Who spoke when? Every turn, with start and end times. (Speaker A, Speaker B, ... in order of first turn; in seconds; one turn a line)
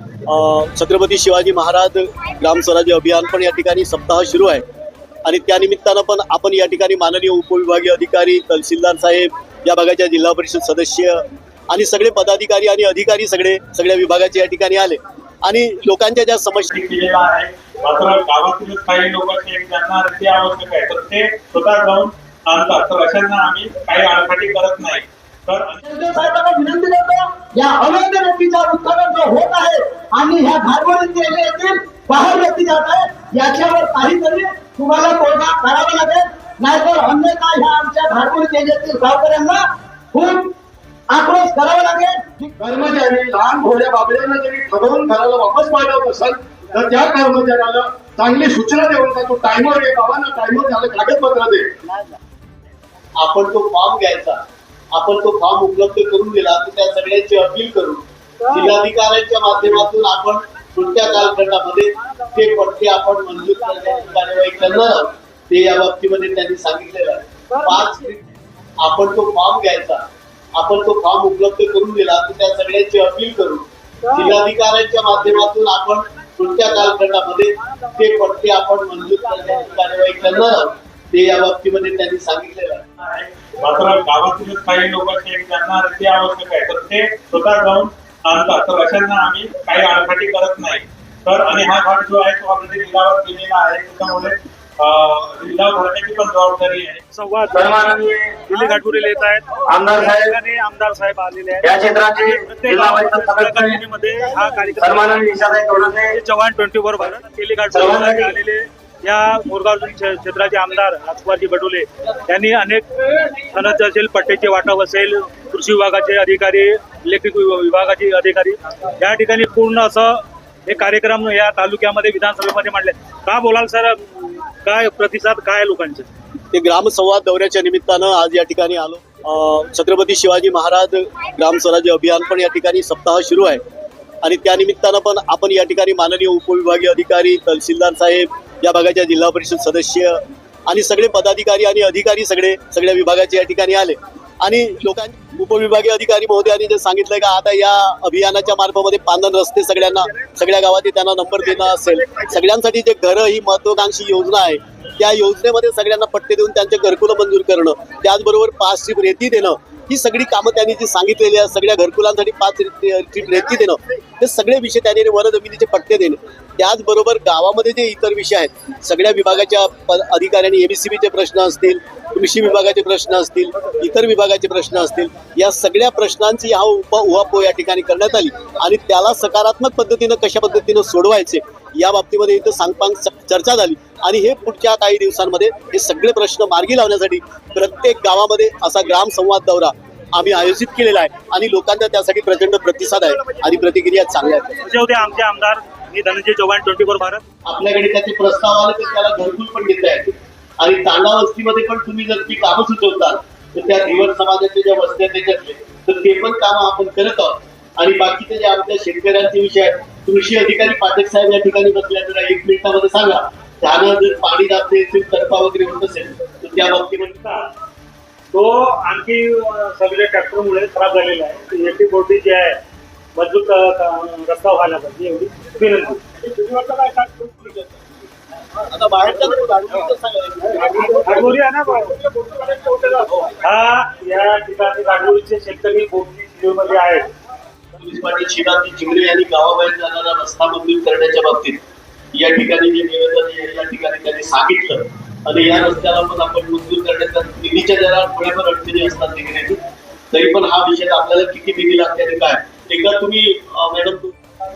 Speaker A: 0.3-4.6
Speaker A: 5.2-16.7
Speaker B: 16.7-25.8
Speaker C: 25.9-39.6
Speaker C: 40.1-40.4
Speaker C: 41.1-42.4
Speaker D: 42.6-51.7
Speaker A: 53.2-54.4
Speaker A: 54.9-68.2
Speaker A: 68.8-82.8
Speaker B: 83.0-97.0
Speaker E: 97.1-105.5
Speaker E: 106.0-126.1
Speaker A: 126.5-133.6
Speaker A: 134.2-194.5
Speaker E: 194.6-197.2
Speaker A: 197.4-217.2
Speaker E: 217.2-217.5
Speaker E: 218.3-222.6
Speaker E: 223.2-227.7
Speaker A: 228.6-231.1
Speaker E: 230.7-237.1
Speaker A: 237.7-241.6
Speaker A: 242.1-249.6
Speaker A: 250.1-254.1